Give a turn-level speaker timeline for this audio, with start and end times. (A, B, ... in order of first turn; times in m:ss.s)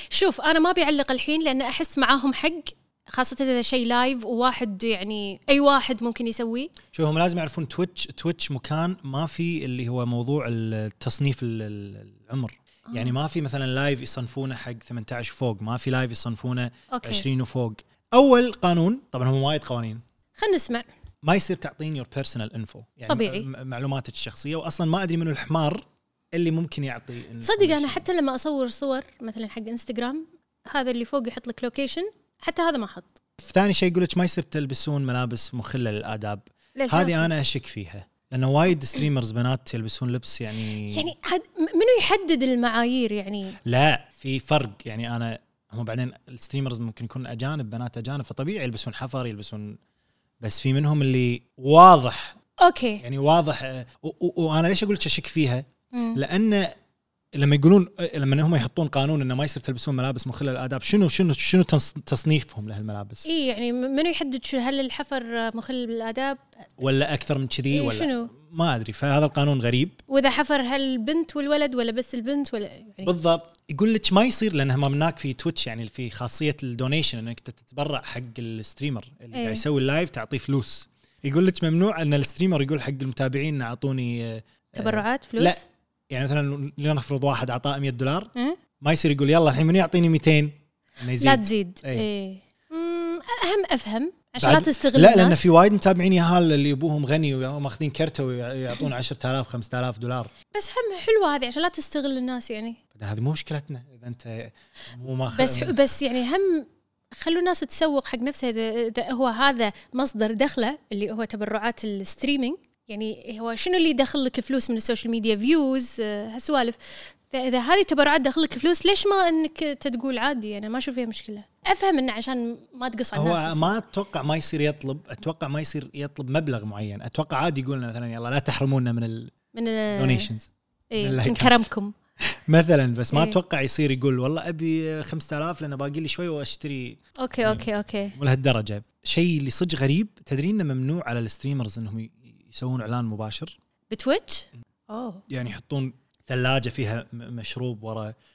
0:00.1-0:06.7 A
0:06.9-0:20.0 B
0:16.9-0:17.3 A
0:20.4-0:20.9 A
0:21.2-0:28.1 B
0:23.1-0:23.5 A
0:27.4-0:33.2 A
0:33.4-0:41.1 B
0:36.8-0:37.3 A
0:40.9-0:43.6 A
0:43.6-0:49.8 B
0:50.4-0:52.4 B
0:52.6-0:53.0 A
0:53.0-0:56.8 B
0:55.9-0:56.2 A
0:57.4-1:03.3 B
1:03.2-1:06.4 A
1:06.8-1:10.0 B
1:07.7-1:08.3 A
1:10.1-1:13.1 A
1:13.0-1:32.1 B
1:19.3-1:19.6 A
1:24.8-1:25.6 A
1:31.2-1:35.5 A
1:34.4-1:40.3 B
1:40.5-1:42.8 A
1:43.0-1:45.8 B
1:45.3-2:03.7 A
2:03.2-2:09.3 B
2:09.5-2:10.3 A
2:09.9-2:10.5 B
2:10.9-2:11.9 A
2:11.0-2:11.7 B
2:12.2-2:23.6 B
2:17.2-2:18.2 A
2:23.9-2:25.2 A
2:25.3-2:28.2 B